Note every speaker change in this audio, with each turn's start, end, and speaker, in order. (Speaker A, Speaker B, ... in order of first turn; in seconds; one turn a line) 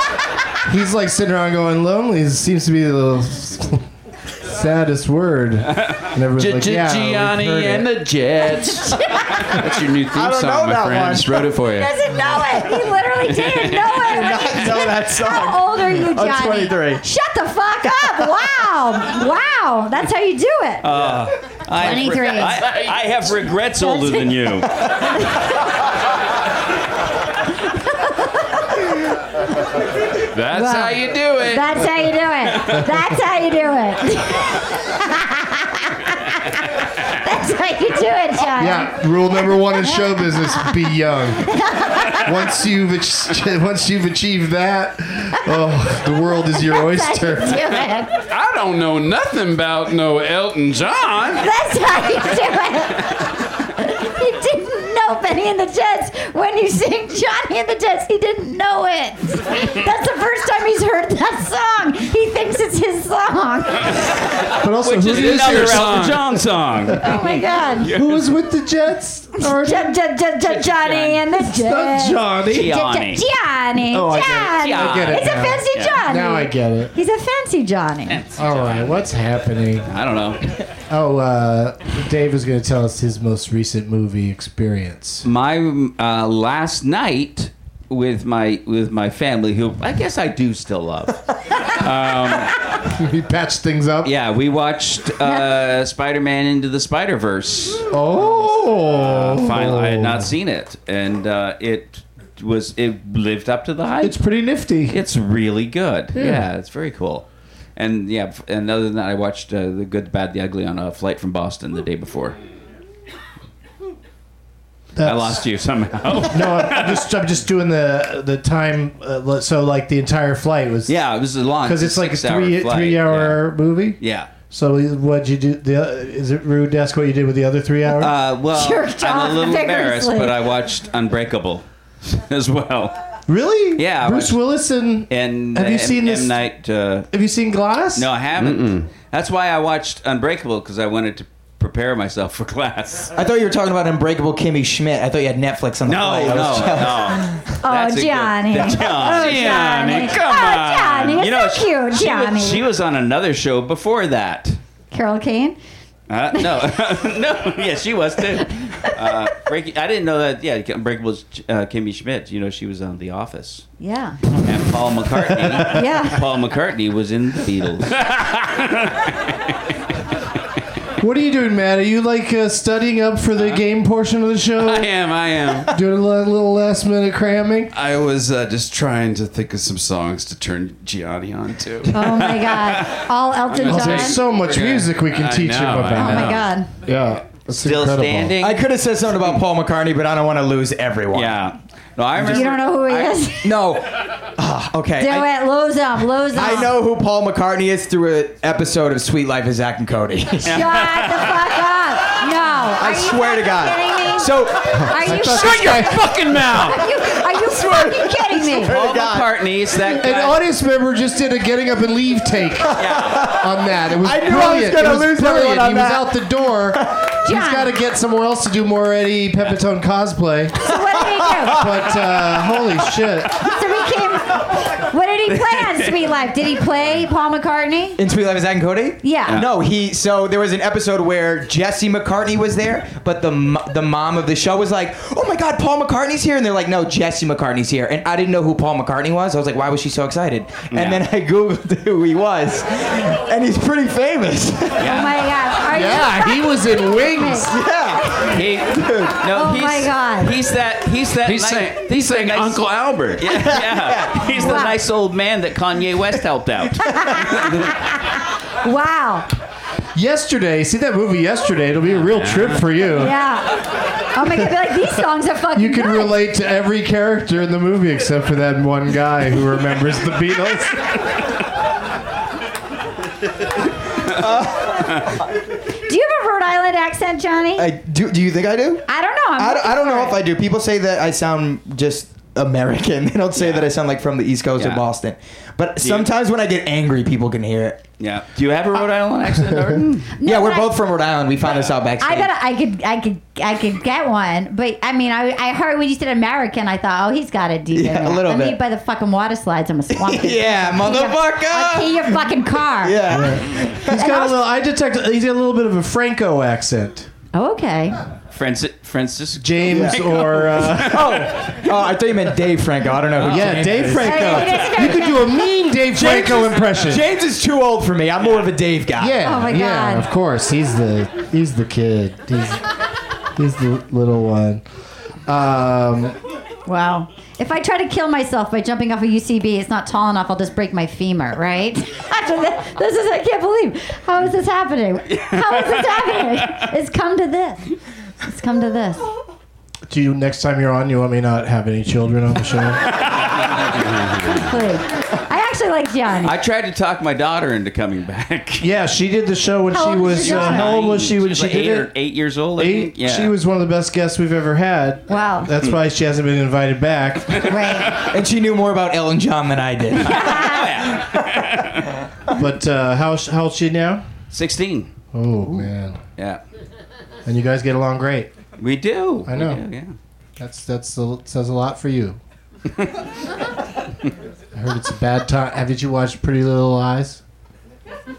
Speaker A: 0.6-3.8
Speaker A: 4.4-7.9
Speaker B: 6.4-11.9
Speaker C: 8.4-9.6
Speaker D: 10.1-11.4
Speaker C: 11.7-20.9
Speaker B: 13.3-14.1
Speaker D: 14.0-17.0
Speaker E: 20.8-24.7
Speaker D: 20.9-21.2
Speaker C: 21.8-22.6
Speaker C: 23.8-24.5
Speaker C: 27.8-28.8
Speaker B: 30.3-31.8
Speaker C: 30.5-36.6
Speaker C: 37.1-39.0
Speaker A: 38.6-41.5
Speaker C: 39.8-40.8
Speaker C: 41.5-42.3
Speaker A: 42.1-47.8
Speaker C: 46.6-48.2
Speaker B: 48.3-51.5
Speaker C: 51.4-53.2
Speaker C: 53.8-64.0
Speaker A: 64.6-66.3
Speaker E: 64.8-67.1
Speaker B: 65.0-66.3
Speaker A: 66.9-67.2
Speaker C: 67.0-67.9
Speaker E: 67.8-68.2
Speaker A: 67.9-70.0
Speaker C: 69.4-78.2
Speaker E: 70.4-71.2
Speaker A: 71.4-72.7
Speaker E: 72.5-73.2
Speaker A: 73.9-76.9
Speaker E: 74.6-76.0
Speaker E: 78.1-79.0
Speaker A: 78.3-79.9
Speaker E: 79.8-80.5
Speaker A: 80.9-85.2
Speaker E: 85.2-92.5
Speaker A: 92.9-94.1
Speaker E: 94.0-97.9
Speaker A: 97.9-100.2
Speaker E: 99.0-104.2
Speaker A: 104.0-105.0
Speaker E: 104.9-107.2
Speaker A: 106.1-106.4
Speaker E: 107.8-112.4
Speaker A: 115.0-115.4
Speaker E: 115.0-117.0
Speaker A: 116.2-121.0
Speaker E: 120.9-123.5
Speaker A: 121.6-124.0
Speaker E: 124.0-124.3
Speaker A: 124.5-128.1
Speaker E: 127.9-133.0
Speaker C: 128.5-130.4
Speaker A: 133.3-136.3
Speaker E: 133.8-134.4
Speaker E: 135.1-137.1
Speaker A: 137.1-138.1
Speaker E: 137.9-143.1
Speaker B: 138.4-138.9
Speaker D: 143.2-147.3
Speaker E: 145.8-154.6
Speaker C: 147.6-152.6
Speaker B: 149.0-150.9
Speaker C: 154.9-155.6
Speaker E: 156.1-163.7
Speaker C: 156.3-156.7
Speaker C: 163.8-164.2
Speaker E: 164.3-168.0
Speaker C: 165.7-166.2
Speaker B: 168.0-168.8
Speaker A: 171.0-174.9
Speaker B: 174.6-175.7
Speaker A: 175.7-177.7
Speaker B: 177.7-186.5
Speaker C: 181.9-184.2
Speaker A: 183.6-188.4
Speaker C: 185.9-186.7
Speaker E: 187.6-188.6
Speaker D: 188.4-191.4
Speaker E: 191.1-193.2
Speaker D: 192.2-192.5
Speaker C: 192.3-193.5
Speaker D: 193.4-195.3
Speaker C: 195.0-196.7
Speaker D: 196.3-200.6
Speaker E: 200.4-201.4
Speaker C: 200.5-208.7
Speaker D: 202.8-204.8
Speaker A: 204.7-206.6
Speaker B: 205.1-206.8
Speaker D: 207.3-209.3
Speaker E: 208.6-210.4
Speaker A: 209.8-220.6
Speaker E: 212.8-213.3
Speaker D: 212.8-216.2
Speaker C: 217.2-217.7
Speaker C: 220.6-221.7
Speaker D: 220.7-221.9
Speaker A: 221.5-223.4
Speaker C: 223.4-228.0
Speaker E: 225.5-225.8
Speaker D: 228.0-244.9
Speaker C: 229.0-229.4
Speaker E: 240.7-241.0
Speaker E: 244.8-245.1
Speaker C: 244.8-248.4
Speaker A: 245.7-247.5
Speaker D: 247.5-249.2
Speaker E: 248.3-257.6
Speaker C: 249.3-250.3
Speaker B: 251.2-253.2
Speaker D: 253.2-254.6
Speaker C: 254.4-254.7
Speaker C: 256.8-259.3
Speaker A: 259.9-263.2
Speaker B: 262.1-262.6
Speaker C: 262.9-266.1
Speaker A: 265.5-271.0
Speaker D: 274.1-275.0
Speaker C: 275.9-277.7
Speaker D: 277.6-287.8
Speaker C: 278.9-280.2
Speaker E: 283.4-283.7
Speaker E: 284.6-284.9
Speaker E: 285.8-286.1
Speaker E: 288.0-290.1
Speaker C: 290.1-290.7
Speaker D: 290.2-292.3
Speaker C: 292.0-303.2
Speaker D: 297.7-298.6
Speaker D: 299.9-304.1
Speaker A: 303.1-307.1
Speaker C: 303.9-304.4
Speaker C: 307.3-308.0
Speaker E: 308.3-311.3
Speaker A: 309.4-311.4
Speaker D: 309.7-310.2
Speaker D: 310.8-314.5
Speaker E: 313.1-313.6
Speaker A: 313.2-317.1
Speaker C: 314.0-315.4
Speaker D: 315.9-319.2
Speaker A: 319.0-322.6
Speaker C: 319.2-320.1
Speaker A: 323.3-324.6
Speaker A: 325.2-326.2
Speaker C: 326.6-337.7
Speaker E: 335.2-336.2
Speaker C: 338.2-339.0
Speaker A: 339.9-342.8
Speaker B: 343.9-344.3
Speaker C: 344.1-346.3
Speaker E: 346.2-348.7
Speaker A: 348.6-351.9
Speaker C: 349.7-350.7
Speaker E: 350.2-353.3
Speaker A: 352.6-357.8
Speaker C: 355.1-355.5
Speaker C: 357.4-357.9
Speaker D: 357.9-361.4
Speaker E: 360.0-361.9
Speaker C: 360.1-360.6
Speaker A: 362.3-364.0
Speaker E: 364.3-364.9
Speaker A: 365.1-366.0
Speaker A: 367.2-368.3
Speaker E: 368.6-369.9
Speaker A: 369.2-369.6
Speaker A: 370.4-372.2
Speaker A: 374.5-377.2